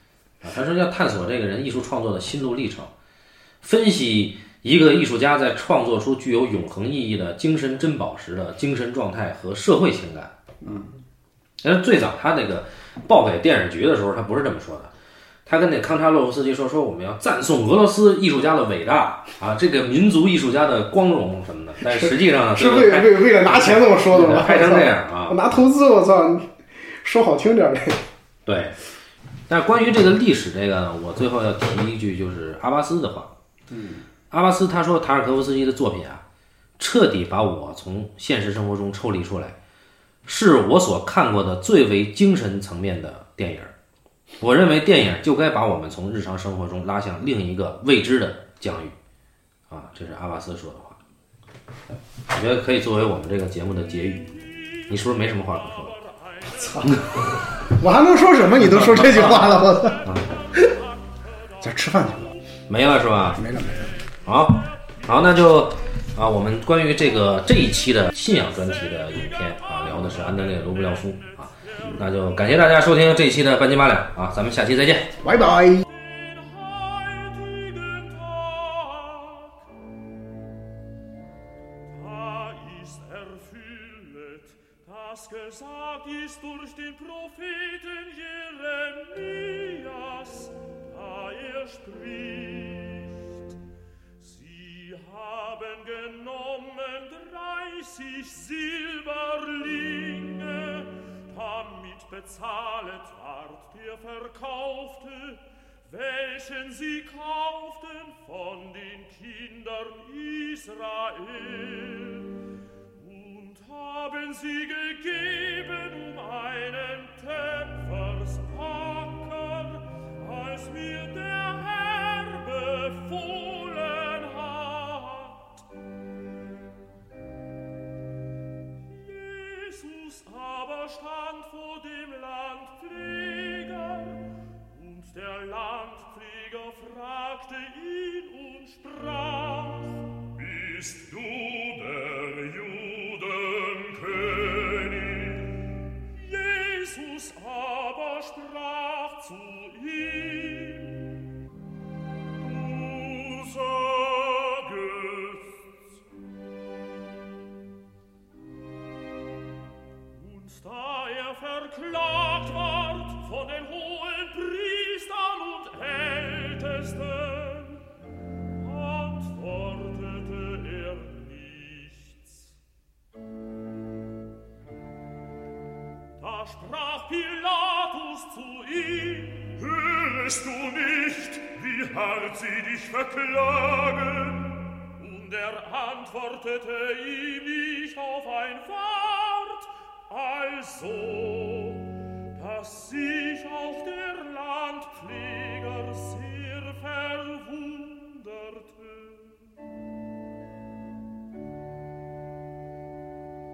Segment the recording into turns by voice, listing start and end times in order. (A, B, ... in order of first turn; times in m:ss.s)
0:00.4-0:02.9 A
0:03.6-0:10.8 A
0:10.6-0:10.9 B
0:11.6-0:14.9 A
0:15.4-0:25.4 A
0:21.8-0:28.0 B
0:28.4-0:28.8 A
0:29.5-0:33.3 A
0:33.7-0:34.0 B
0:34.3-0:36.2 A
0:36.8-0:39.6 A
0:40.2-0:43.7 A
0:44.4-0:49.0 A
0:49.7-0:51.0 A
0:52.3-0:56.0 A
0:55.8-0:56.8 C
0:56.6-1:00.8 B
0:56.8-0:57.2 A
0:58.6-1:00.4 A
1:00.5-1:00.9 C
1:01.6-1:02.3 B
1:02.7-1:03.4 A
1:03.3-1:04.0 B
1:04.2-1:15.2 A
1:08.9-1:12.0 C
1:15.2-1:15.8 B
1:15.8-1:19.6 C
1:21.9-1:33.5 C
1:34.2-1:52.3 C
1:53.0-2:05.6 C
2:08.8-2:31.2 C
2:32.4-2:35.6 C
2:40.1-2:47.8 C
2:48.5-2:52.5 C
2:56.2-3:19.5 C